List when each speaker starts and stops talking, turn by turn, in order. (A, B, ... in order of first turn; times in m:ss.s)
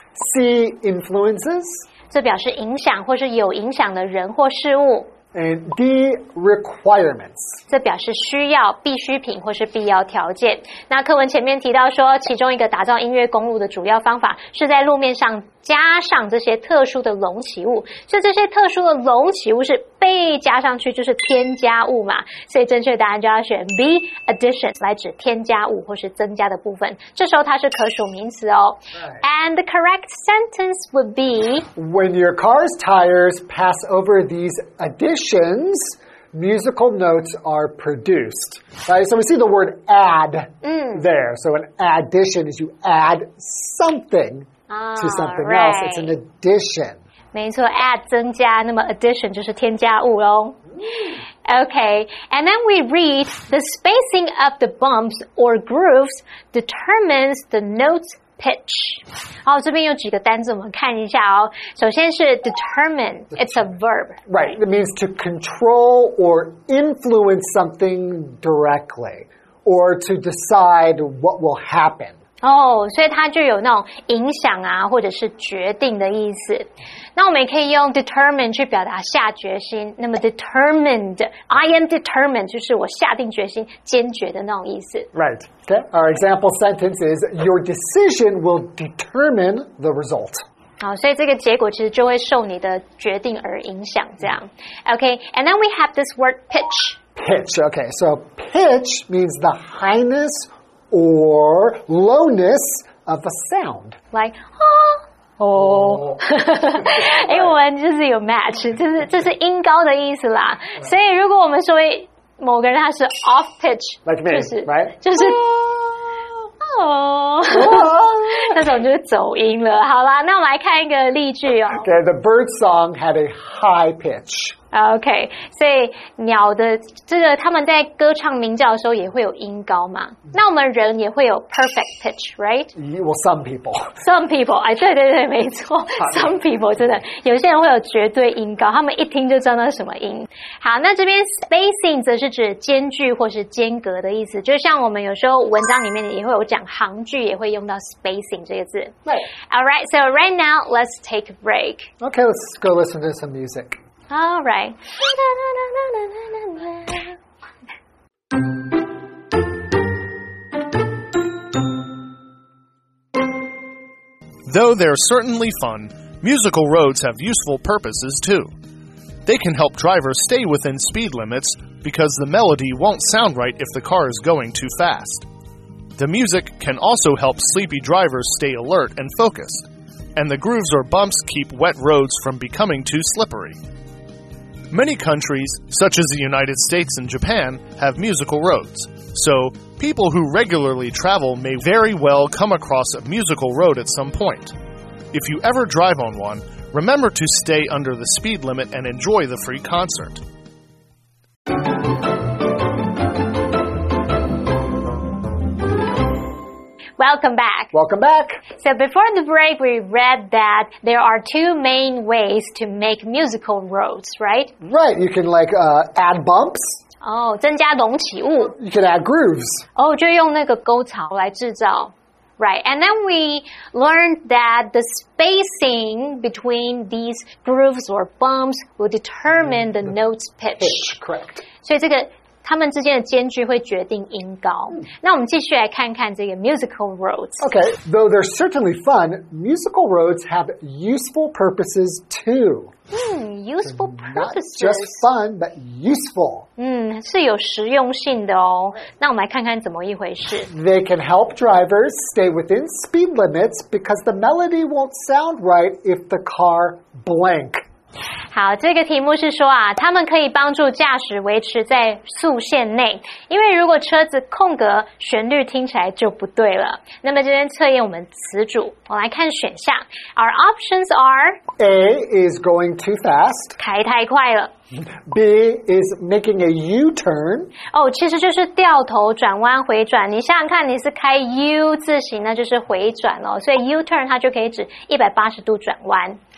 0:00.2-0:01.8 A
0:02.1-0:05.1 B
0:05.3-0:07.6 A
0:07.7-0:31.7 B
0:31.7-0:47.0 A
0:40.6-0:41.0 B
0:44.7-0:46.2 B
0:47.3-0:50.6 B
0:51.5-1:04.2 B
1:04.3-1:12.2 A
1:12.4-1:25.1 B
1:25.1-1:30.4 A
1:30.8-1:37.0 B
1:37.2-1:44.0 A
1:44.1-1:55.4 B
1:45.9-1:46.2 A
1:46.8-1:47.5 A
1:54.0-1:56.2 A
1:56.6-2:01.9 B
1:57.4-1:58.7 A
2:01.8-2:04.6 A
2:04.7-2:12.7 B
2:12.7-2:13.9 A
2:14.0-2:31.9 B
2:16.0-2:16.3 A
2:32.0-2:33.8 A
2:34.1-2:37.2 B
2:44.4-2:48.5 C
2:49.2-2:55.2 C
2:56.0-3:03.6 C
3:04.7-3:14.5 C
3:15.1-3:20.2 C
3:27.0-3:27.7 B
3:27.7-3:28.4 A
3:28.6-3:34.5 B
3:34.6-3:36.8 A
3:37.0-3:38.5 B
3:38.5-3:39.6 A
3:39.8-3:50.8 B
3:49.4-3:49.9 A
3:50.6-3:51.4 A
3:51.6-3:57.4 B
3:57.4-4:02.7 A
4:02.9-4:05.0 B
4:03.6-4:06.5 A
4:06.6-4:10.5 B
4:10.5-4:17.6 A
4:18.3-4:31.4 B
4:31.6-4:33.6 A
4:33.6-4:34.5 B
4:34.8-4:37.5 A
4:37.7-4:46.2 B